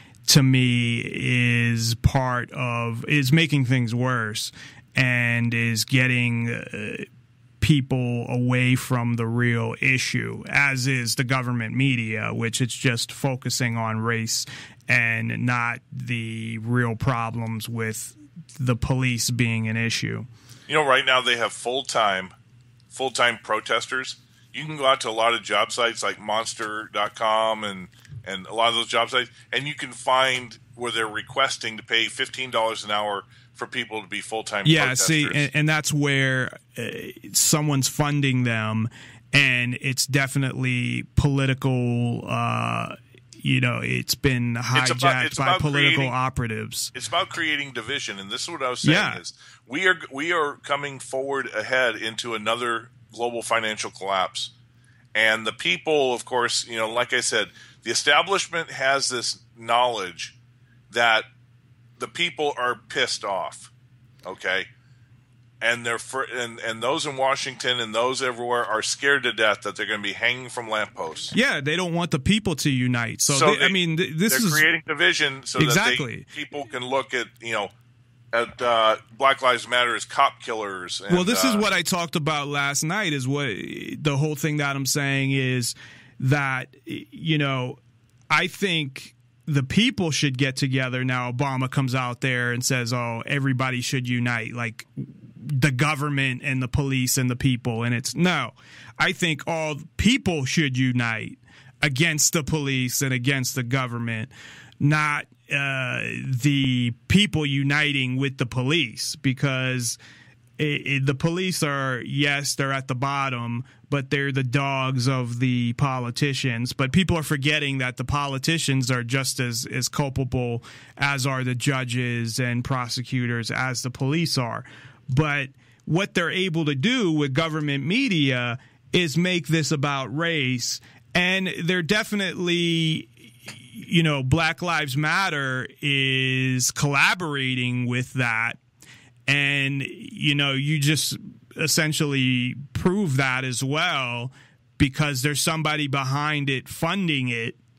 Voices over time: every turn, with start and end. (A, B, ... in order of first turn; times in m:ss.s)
0:00.2-0:07.1 A
0:07.6-0:20.3 A
0:20.7-0:22.3 B
0:22.9-0:35.5 B
0:34.6-0:46.9 A
0:44.7-0:46.1 B
0:46.9-0:54.5 B
0:48.8-0:49.2 A
0:55.1-1:00.4 B
1:00.9-1:01.3 B
1:02.0-1:03.7 B
1:04.2-1:04.7 B
1:05.6-1:11.3 B
1:11.3-1:14.6 A
1:13.3-1:17.7 B
1:15.6-1:16.3 A
1:18.3-1:21.7 B
1:21.1-1:27.8 A
1:28.3-1:50.0 A
1:50.6-2:18.6 A
2:19.3-2:27.6 A